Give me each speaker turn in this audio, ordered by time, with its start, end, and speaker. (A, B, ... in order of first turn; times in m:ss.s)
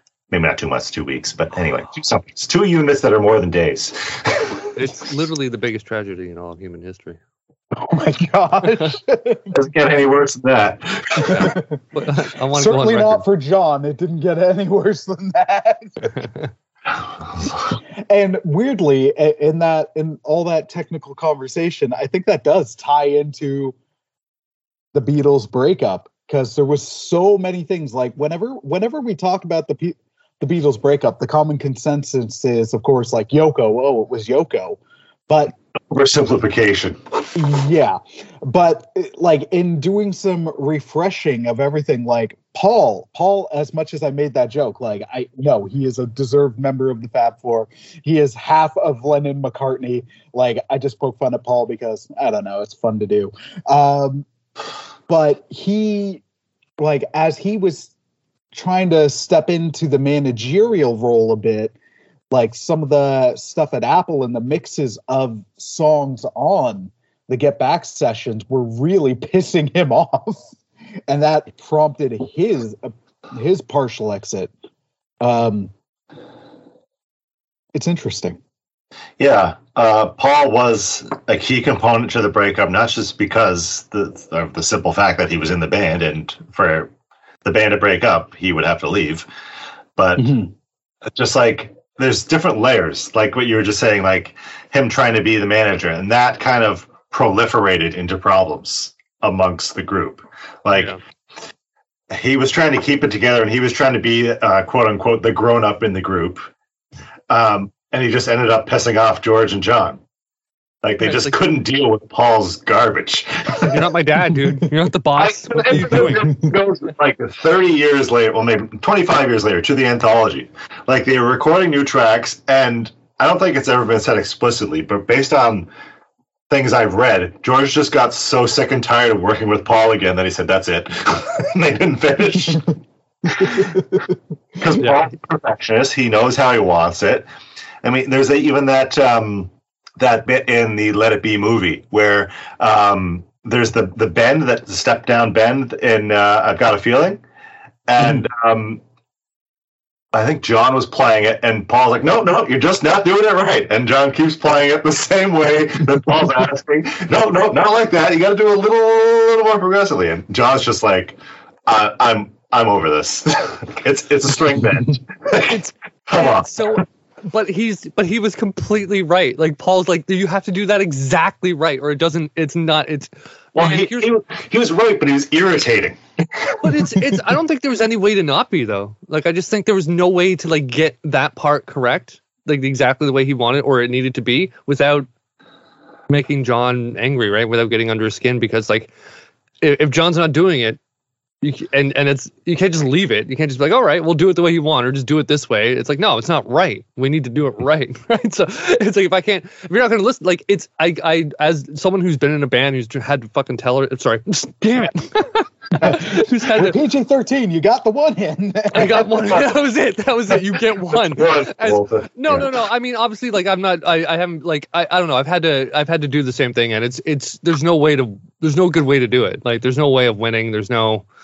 0:00.3-0:04.7 A
0:04.8-0:07.2 B
0:07.7-0:09.5 C
0:09.5-0:11.6 A
0:11.2-0:11.8 C
0:11.3-0:13.2 B
0:12.5-0:16.1 C
0:16.1-0:16.5 B
0:18.1-0:23.8 C
0:24.9-0:35.6 C
0:35.9-0:37.2 A
0:37.4-0:54.3 C
0:55.1-0:56.2 C
0:56.8-0:57.9 C
0:58.5-1:01.7 C
1:02.3-1:10.6 C
1:11.1-1:14.5 C
1:15.2-1:15.7 C
1:17.7-1:18.4 C
1:19.2-1:26.9 A
1:27.4-1:29.3 A
1:30.0-1:30.4 A
1:30.2-1:30.5 C
1:31.1-1:41.0 A
1:40.7-1:41.0 B
1:42.1-1:46.5 A
1:47.3-1:50.0 A
1:50.8-1:53.8 A
1:51.0-1:51.4 B
1:53.6-1:56.3 B
1:55.2-2:05.7 A
1:56.1-1:56.5 C
2:06.5-2:12.8 A
2:13.3-2:13.8 A
2:14.6-2:17.3 A
2:14.8-2:15.0 B
2:17.8-2:27.2 A
2:27.9-2:28.8 A
2:30.1-2:46.8 A
2:45.3-2:54.1 B
2:53.6-2:56.6 A
2:56.6-3:05.1 B
3:06.1-3:08.9 B
3:09.6-3:10.8 B
3:11.4-3:26.8 B
3:25.8-3:29.3 C
3:28.7-3:41.1 B
3:31.0-3:32.6 A